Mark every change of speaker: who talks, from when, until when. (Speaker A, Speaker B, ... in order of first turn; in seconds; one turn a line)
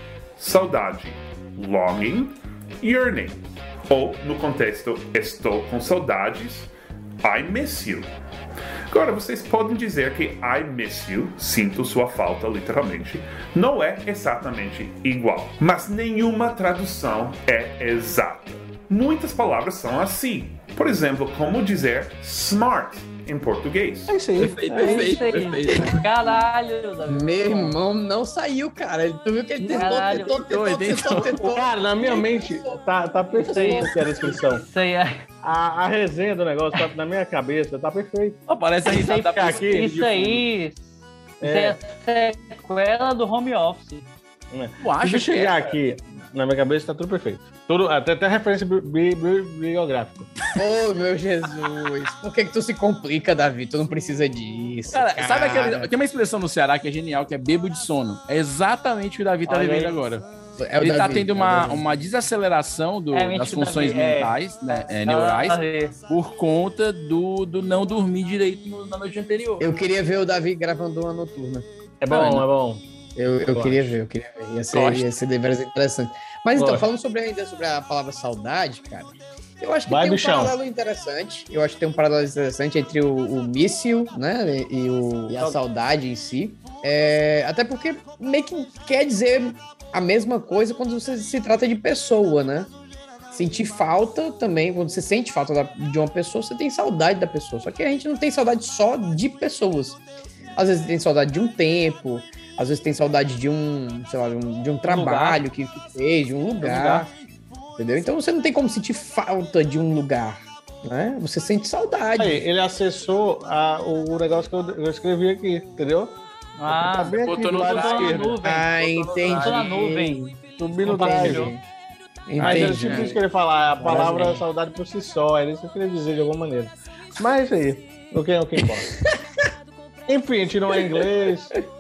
Speaker A: 0.4-6.7
Speaker A: 7.2-8.1
Speaker A: 8.9-24.2
Speaker B: 24.1-25.2
Speaker C: 24.4-26.0
Speaker D: 24.8-27.8
Speaker E: 27.1-32.8
Speaker B: 29.6-30.0
Speaker D: 29.7-30.4
Speaker C: 30.4-31.4
Speaker B: 31.3-34.6
Speaker E: 33.3-34.1
Speaker D: 33.4-35.2
Speaker B: 35.4-38.4
Speaker C: 38.5-40.4
Speaker D: 38.9-44.1
Speaker B: 39.0-40.0
Speaker B: 41.4-41.8
Speaker B: 44.5-50.3
Speaker C: 44.8-45.8
Speaker E: 50.5-55.9
Speaker C: 54.9-60.3
Speaker D: 59.5-60.0
Speaker E: 60.6-61.8
Speaker C: 60.8-69.6
Speaker D: 63.1-66.0
Speaker E: 69.6-71.7
Speaker B: 72.0-72.8
Speaker C: 72.1-72.5
Speaker E: 73.2-92.7
Speaker B: 73.5-73.9
Speaker C: 74.7-75.1
Speaker B: 76.5-76.9
Speaker B: 79.9-80.5
Speaker B: 85.3-85.6
Speaker E: 93.3-100.0
Speaker E: 100.5-107.1
Speaker B: 104.9-105.4
Speaker C: 106.6-107.0
Speaker E: 107.8-112.4
Speaker B: 112.2-118.4
Speaker D: 116.6-120.2
Speaker C: 117.1-118.3
Speaker E: 118.4-121.6
Speaker C: 119.2-119.6
Speaker B: 120.6-121.5
Speaker D: 120.8-121.5
Speaker E: 122.3-123.2
Speaker C: 122.4-123.1
Speaker B: 122.4-128.9
Speaker E: 123.8-124.3
Speaker D: 123.9-124.4
Speaker B: 130.1-131.6